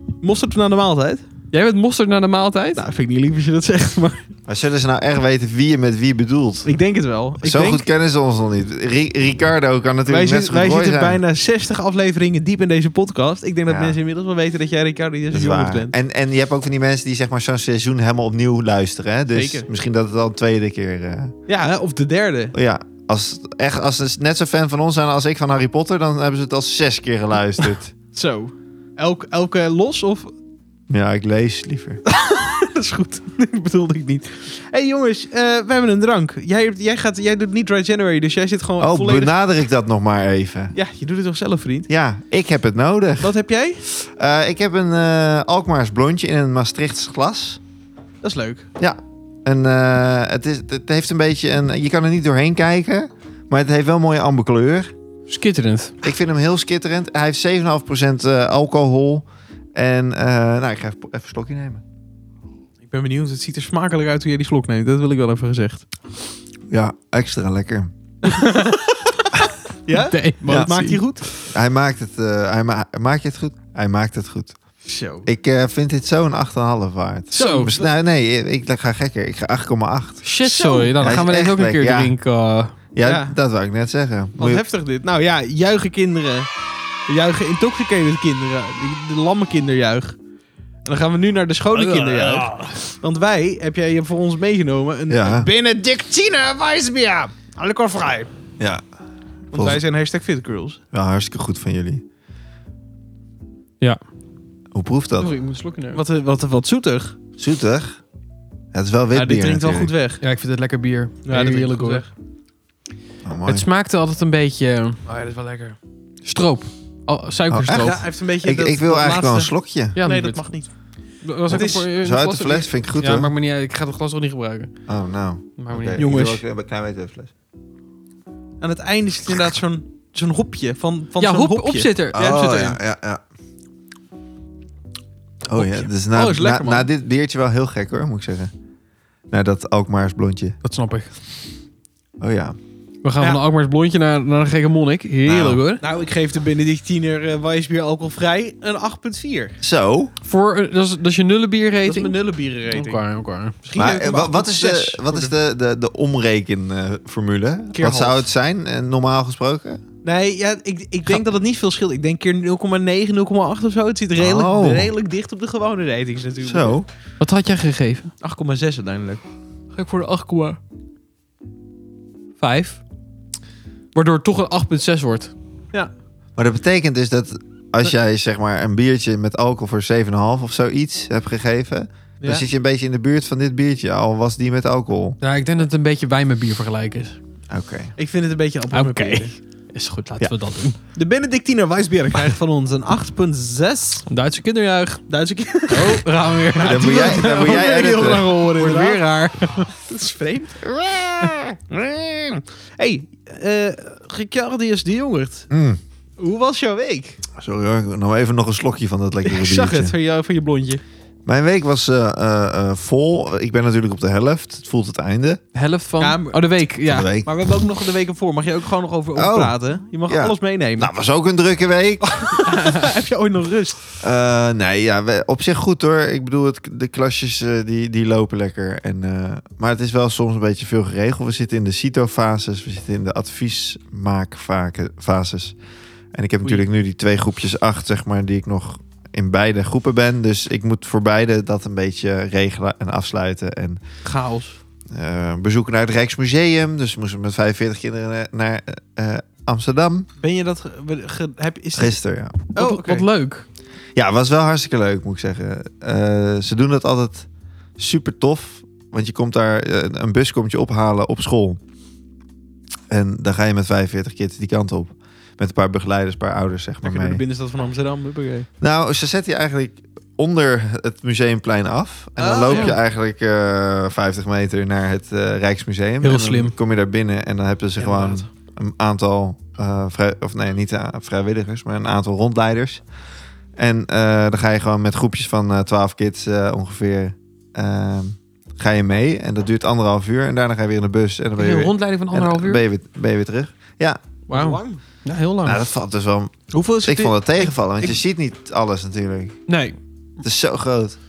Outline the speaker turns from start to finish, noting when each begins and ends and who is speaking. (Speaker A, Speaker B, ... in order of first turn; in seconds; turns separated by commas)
Speaker A: 0.2-1.2, Speaker B: 1.5-2.8, Speaker A: 2.7-4.3, Speaker C: 4.5-6.7, Speaker A: 6.6-7.8, Speaker C: 7.4-11.2, Speaker A: 10.1-15.9, Speaker C: 13.7-13.9, Speaker C: 15.3-21.3, Speaker A: 19.3-19.7, Speaker A: 21.5-22.5, Speaker C: 22.5-27.9, Speaker A: 28.1-30.3, Speaker C: 30.9-32.0, Speaker A: 32.0-39.3, Speaker C: 38.8-40.7, Speaker A: 40.7-41.9, Speaker C: 41.9-47.6, Speaker A: 43.2-43.8, Speaker A: 48.2-48.7, Speaker C: 48.8-54.9, Speaker B: 55.3-55.9, Speaker C: 56.0-61.8, Speaker A: 62.9-65.9, Speaker C: 66.7-67.9, Speaker A: 68.2-69.1, Speaker A: 69.8-71.3, Speaker B: 69.9-71.0, Speaker C: 71.5-74.6, Speaker A: 74.8-75.3, Speaker C: 75.2-80.2, Speaker B: 77.3-77.7, Speaker A: 77.3-77.9, Speaker B: 80.2-82.8, Speaker A: 80.4-81.0, Speaker C: 81.0-82.1, Speaker C: 82.9-84.6, Speaker A: 83.0-83.3, Speaker A: 84.4-86.5, Speaker A: 87.1-90.2, Speaker A: 90.8-98.3, Speaker C: 91.7-92.6, Speaker C: 95.1-95.5, Speaker C: 98.6-98.8, Speaker C: 99.5-99.8, Speaker A: 99.5-100.8, Speaker C: 100.9-102.0, Speaker C: 104.7-105.3, Speaker B: 105.2-106.0, Speaker A: 105.9-107.2, Speaker C: 107.4-108.0, Speaker C: 108.7-109.9, Speaker A: 109.1-110.2, Speaker B: 110.2-112.0, Speaker A: 111.2-112.1, Speaker C: 113.2-113.7, Speaker B: 113.5-115.0, Speaker A: 115.0-115.8, Speaker B: 116.2-118.0, Speaker C: 117.5-120.0, Speaker A: 117.7-120.7, Speaker B: 120.0-120.4, Speaker B: 121.2-124.7, Speaker A: 121.5-121.9, Speaker C: 121.5-123.3, Speaker C: 124.9-127.3, Speaker B: 125.6-126.1, Speaker A: 126.0-126.4, Speaker A: 128.6-132.8, Speaker B: 131.2-132.6, Speaker C: 132.1-133.2, Speaker C: 135.5-138.5, Speaker A: 135.6-136.9, Speaker C: 139.3-140.6, Speaker B: 140.6-141.1, Speaker C: 142.2-142.6, Speaker B: 143.0-145.8, Speaker C: 145.2-145.6, Speaker A: 145.8-149.6, Speaker C: 149.6-150.1, Speaker B: 150.2-153.5, Speaker A: 151.8-153.0, Speaker A: 153.6-155.3, Speaker C: 153.7-159.8, Speaker A: 157.7-158.2, Speaker A: 160.0-166.8, Speaker C: 164.2-164.9, Speaker C: 166.4-166.8, Speaker B: 167.2-168.1, Speaker A: 168.2-169.2, Speaker B: 169.8-170.5, Speaker A: 169.9-170.5, Speaker B: 172.4-172.8, Speaker B: 173.9-175.3, Speaker C: 176.3-185.2, Speaker B: 185.2-187.2, Speaker C: 187.5-187.9, Speaker A: 188.0-189.3, Speaker B: 188.7-190.8, Speaker A: 190.9-194.1, Speaker B: 194.1-195.0, Speaker A: 195.1-199.0, Speaker B: 195.7-199.7, Speaker C: 196.6-198.3, Speaker A: 199.7-205.5, Speaker C: 205.5-205.8, Speaker A: 206.2-207.2, Speaker C: 207.3-209.9, Speaker A: 209.2-210.8, Speaker C: 211.2-215.4, Speaker B: 215.5-217.1, Speaker A: 216.0-216.4, Speaker C: 216.8-217.3, Speaker A: 217.2-220.9, Speaker C: 219.2-219.6, Speaker C: 220.1-222.4, Speaker A: 222.0-223.8, Speaker C: 224.0-235.6, Speaker C: 236.1-243.8, Speaker A: 244.0-244.6, Speaker C: 244.9-250.1, Speaker A: 250.2-252.0, Speaker C: 251.8-252.4, Speaker A: 252.5-253.1, Speaker B: 252.5-253.4, Speaker C: 253.9-261.6, Speaker C: 262.9-267.2, Speaker A: 266.8-268.5, Speaker C: 268.6-282.8, Speaker A: 272.2-272.7, Speaker B: 272.5-272.8, Speaker B: 276.0-276.5, Speaker A: 277.8-278.3, Speaker C: 283.6-294.0, Speaker B: 291.4-292.6, Speaker A: 294.3-294.8, Speaker B: 294.3-295.6, Speaker C: 295.4-299.4, Speaker A: 296.5-298.0, Speaker B: 299.5-299.8, Speaker C: 300.2-301.0